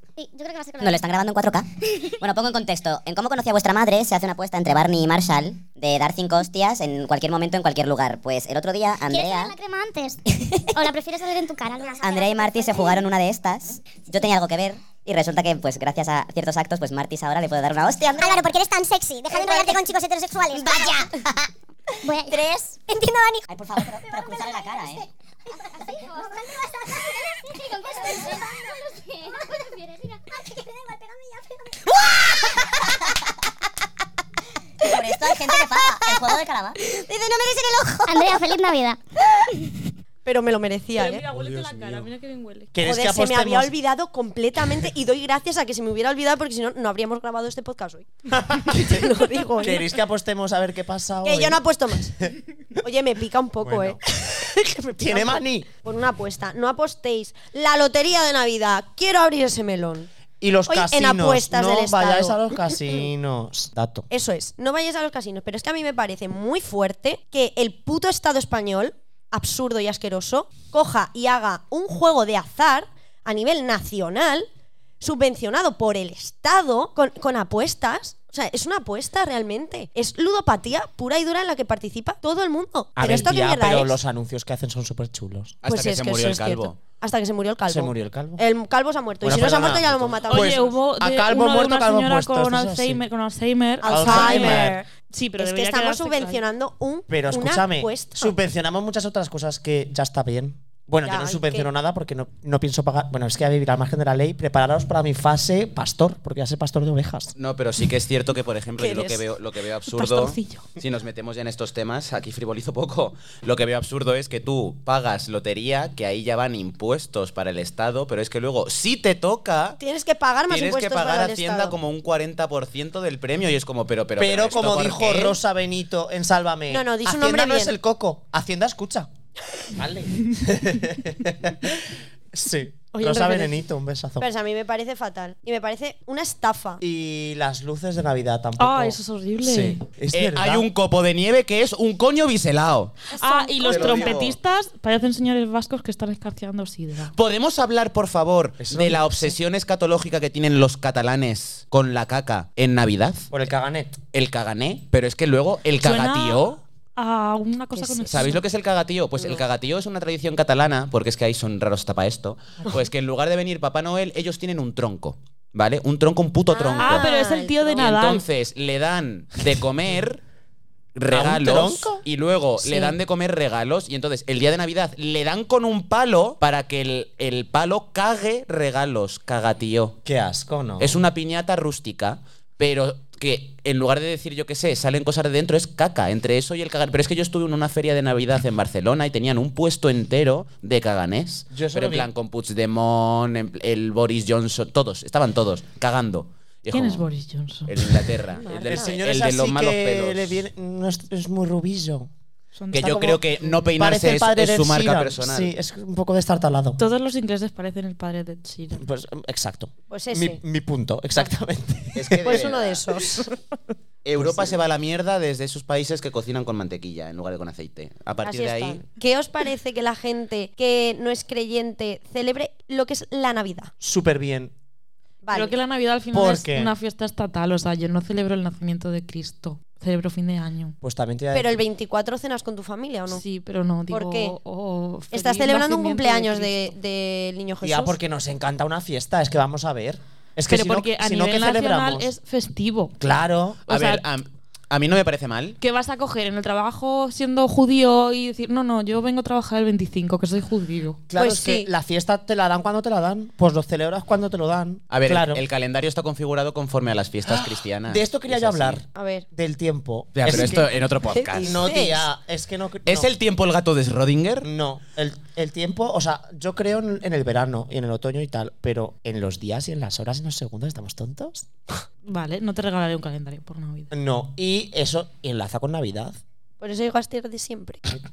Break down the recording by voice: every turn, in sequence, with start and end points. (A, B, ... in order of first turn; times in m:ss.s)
0:00.2-0:01.0 A
0:00.8-0:01.6 B
0:00.8-0:01.6 C
0:02.2-0:09.5 C
0:09.0-0:10.2 A
0:09.1-0:09.4 B
0:10.7-0:12.9 A
0:12.0-0:18.4 C
0:12.0-0:13.1 B
0:14.1-0:14.9 B
0:17.9-0:18.5 B
0:18.2-0:18.5 A
0:19.1-0:19.8 B
0:19.2-0:19.9 A
0:20.5-0:21.1 B
0:20.5-0:20.8 A
0:20.5-0:20.9 C
0:22.0-0:22.6 A
0:23.5-0:25.0 C
0:23.7-0:25.0 B
0:25.8-0:26.4 A
0:27.5-0:30.2 A
0:34.8-0:38.2 B
0:34.9-0:36.7 C
0:38.0-0:39.0 A
0:40.2-0:41.2 D
0:41.0-0:42.7 E
0:41.3-0:42.1 F
0:42.7-0:43.7 F
0:42.8-0:49.8 D
0:48.3-0:51.6 F
0:51.2-0:52.2 D
0:52.8-1:00.1 D
0:53.6-0:54.0 F
0:55.0-0:55.7 F
1:00.4-1:04.1 F
1:00.7-1:02.7 D
1:04.1-1:14.5 D
1:15.0-1:24.0 D
1:23.0-1:25.6 F
1:25.6-1:26.8 G
1:25.6-1:30.7 D
1:27.7-1:28.4 F
1:29.2-1:33.0 F
1:29.3-1:30.1 G
1:30.3-1:36.4 E
1:33.8-1:38.3 D
1:33.8-1:34.8 F
1:37.1-1:47.3 F
1:41.0-1:41.7 D
1:47.4-1:59.8 G
1:48.8-1:49.2 E
1:49.9-1:50.7 E
1:59.8-2:01.8 D
2:00.5-2:05.4 G
2:04.2-2:09.1 F
2:06.7-2:07.8 D
2:09.7-2:14.2 F
2:12.9-2:13.6 D
2:14.2-2:16.8 D
2:16.8-2:20.7 F
2:18.6-2:19.8 E
2:20.1-2:23.1 G
2:23.1-2:24.2 D
2:23.2-2:27.1 E
2:23.6-2:24.4 G
2:27.1-2:33.3 G
2:28.6-2:29.3 F
2:33.3-2:34.0 F
2:34.1-2:36.6 G
2:35.8-2:38.4 E
2:37.7-2:38.2 D
2:38.1-2:47.0 G
2:46.5-2:47.8 D
2:46.8-2:48.2 E
2:47.8-2:50.2 G
2:51.0-3:00.0 G
2:51.1-2:52.0 F
3:00.0-3:01.0 F
3:00.8-3:17.1 G
3:11.5-3:12.1 F
3:16.7-3:18.1 E
3:17.7-3:20.4 G
3:18.4-3:19.0 D
3:18.5-3:22.1 F
3:22.6-3:23.1 E
3:22.7-3:25.5 G
3:22.7-3:26.8 F
3:26.8-3:28.8 E
3:28.7-3:32.5 F
3:29.9-3:30.4 D
3:31.9-3:32.8 G
3:32.2-3:33.3 D
3:34.0-3:38.8 G
3:34.2-3:34.6 F
3:38.2-3:43.7 D
3:43.8-3:44.5 F
3:45.2-3:45.5 D
3:45.3-3:50.8 E
3:46.1-3:46.7 F
3:50.8-3:51.6 F
3:51.3-3:53.2 D
3:53.1-3:56.7 E
3:53.9-3:54.4 D
3:55.1-3:58.0 D
3:57.6-4:02.1 F
4:00.5-4:02.9 E
4:03.0-4:03.6 F
4:03.7-4:05.6 G
4:03.7-4:04.0 E
4:05.6-4:11.0 E
4:11.1-4:15.4 F
4:11.1-4:11.7 D
4:14.9-4:18.8 G
4:17.2-4:20.7 F
4:18.9-4:19.2 D
4:20.2-4:21.6 G
4:20.3-4:22.0 D
4:21.4-4:23.1 F
4:22.9-4:24.5 G
4:24.4-4:31.5 F
4:32.0-4:33.9 E
4:33.9-4:36.2 F
4:36.6-4:37.8 D